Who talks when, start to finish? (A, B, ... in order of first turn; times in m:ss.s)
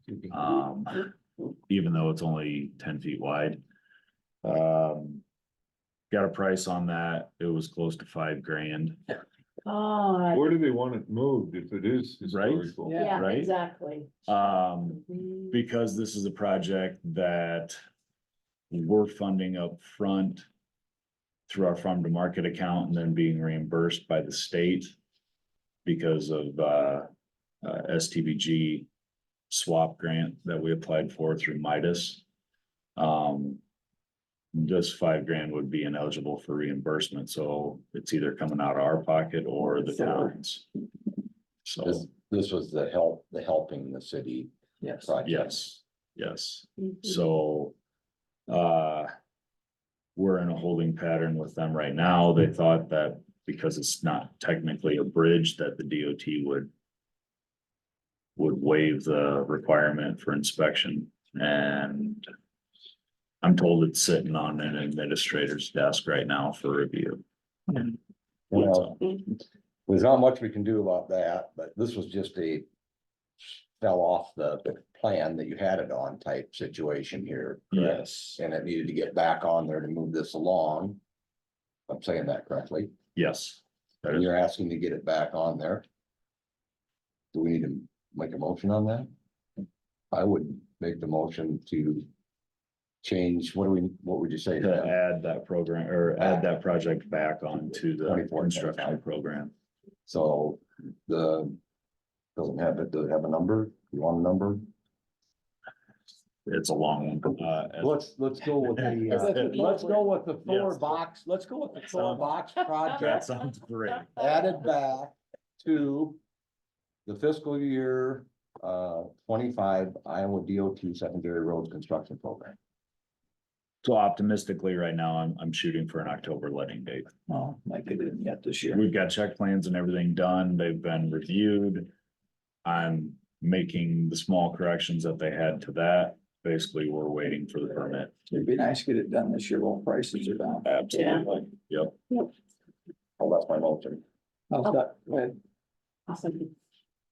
0:00.3-0:01.1 A
0:01.7-0:03.6 A
0:04.4-0:05.2 A
0:06.1-0:09.0 A
0:09.6-0:10.4 B
0:10.3-0:13.0 C
0:12.2-0:13.5 A
0:12.8-0:13.2 D
0:13.0-0:14.1 B
0:14.2-0:17.8 A
0:15.0-0:15.5 B
0:18.7-0:20.4 A
0:21.5-0:24.9 A
0:25.8-0:27.1 A
0:27.6-0:28.9 A
0:29.5-0:32.2 A
0:33.0-0:33.6 A
0:34.5-0:40.6 A
0:40.0-0:40.3 D
0:41.6-0:42.0 A
0:41.8-0:45.6 E
0:44.8-0:45.1 D
0:45.2-0:47.7 A
0:48.5-0:49.1 A
0:50.2-0:56.7 A
0:58.4-1:02.2 A
1:03.4-1:07.2 A
1:08.5-1:09.2 E
1:08.5-1:09.0 A
1:09.9-1:12.6 E
1:13.8-1:21.0 E
1:17.7-1:18.0 A
1:17.8-1:18.4 D
1:21.9-1:22.9 E
1:23.1-1:24.3 A
1:24.1-1:25.8 E
1:27.3-1:29.1 E
1:30.1-1:32.1 E
1:33.0-1:35.0 E
1:34.6-1:39.5 A
1:38.0-1:39.0 E
1:40.0-1:41.6 E
1:42.4-1:44.7 E
1:46.4-1:48.0 A
1:47.8-1:53.2 E
1:48.8-1:49.8 A
1:49.1-1:50.0 D
1:50.4-1:51.0 A
1:51.9-1:54.2 A
1:54.2-1:56.2 E
1:57.0-2:02.6 E
2:03.8-2:07.1 A
2:07.3-2:08.8 D
2:08.7-2:11.9 A
2:12.6-2:18.1 A
2:18.3-2:20.7 D
2:20.6-2:22.0 A
2:20.9-2:21.3 B
2:23.2-2:24.0 E
2:24.5-2:25.4 D
2:26.1-2:26.5 B